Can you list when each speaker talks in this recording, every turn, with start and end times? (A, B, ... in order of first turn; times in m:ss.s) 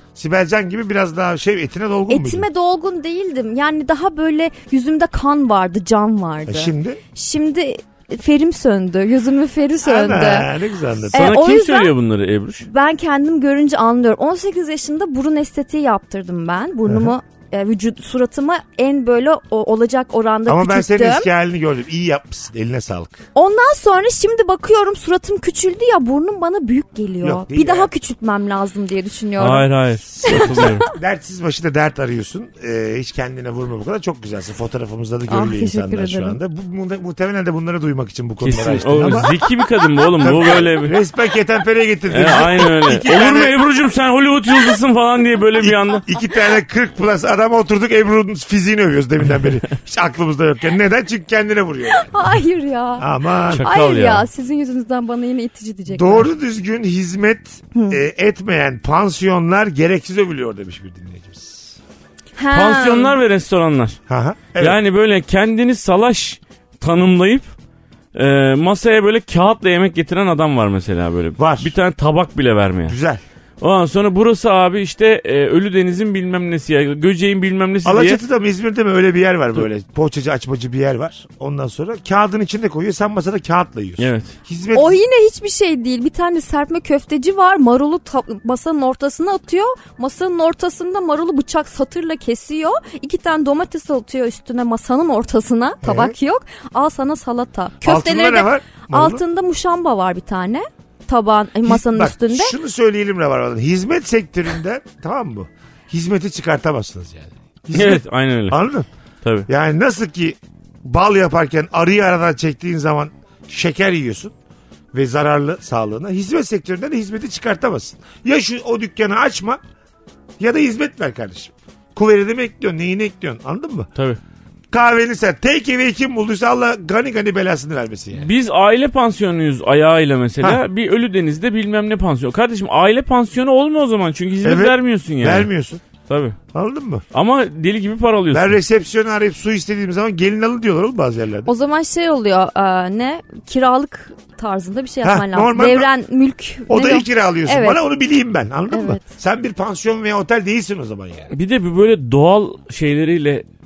0:00.2-0:02.5 A
0:02.1-0:10.5 B
0:06.5-0:07.0 A
0:09.8-0:11.4 A
0:11.1-0:11.9 B
0:11.1-0:12.7 C
0:12.7-0:21.3 B
0:16.9-0:17.2 A
0:20.5-0:23.2 A
0:23.4-0:29.7 B
0:27.2-0:27.9 A
0:29.4-0:30.9 C
0:30.2-0:30.9 B
0:30.2-0:39.3 A
0:35.3-0:36.4 B
0:38.4-0:41.0 C
0:39.1-0:39.4 B
0:40.2-0:43.6 A
0:42.1-0:46.0 C
0:45.6-0:52.1 A
0:51.9-0:56.3 B
0:53.0-0:53.6 A
0:53.5-0:54.3 C
0:55.9-1:01.8 A
1:02.4-1:03.2 B
1:02.5-1:04.0 C
1:04.1-1:04.8 A
1:04.6-1:07.4 C
1:08.1-1:13.0 C
1:11.4-1:11.8 A
1:12.9-1:13.2 A
1:13.6-1:18.2 C
1:17.8-1:25.0 A
1:24.0-1:24.3 C
1:24.7-1:42.5 B
1:35.8-1:36.2 A
1:37.8-1:39.2 A
1:41.6-1:48.9 A
1:47.7-1:48.6 C
1:49.2-1:49.5 C
1:49.5-1:54.4 A
1:54.9-1:59.6 A
2:00.4-2:03.9 A
2:04.7-2:08.3 A
2:08.2-2:15.5 C
2:14.4-2:15.8 A
2:16.1-2:16.4 C
2:16.5-2:17.0 A
2:17.1-2:18.6 C
2:18.3-2:21.5 A
2:21.4-2:27.8 B
2:25.0-2:25.9 A
2:26.7-2:31.3 A
2:28.7-2:29.0 B
2:31.3-2:33.4 C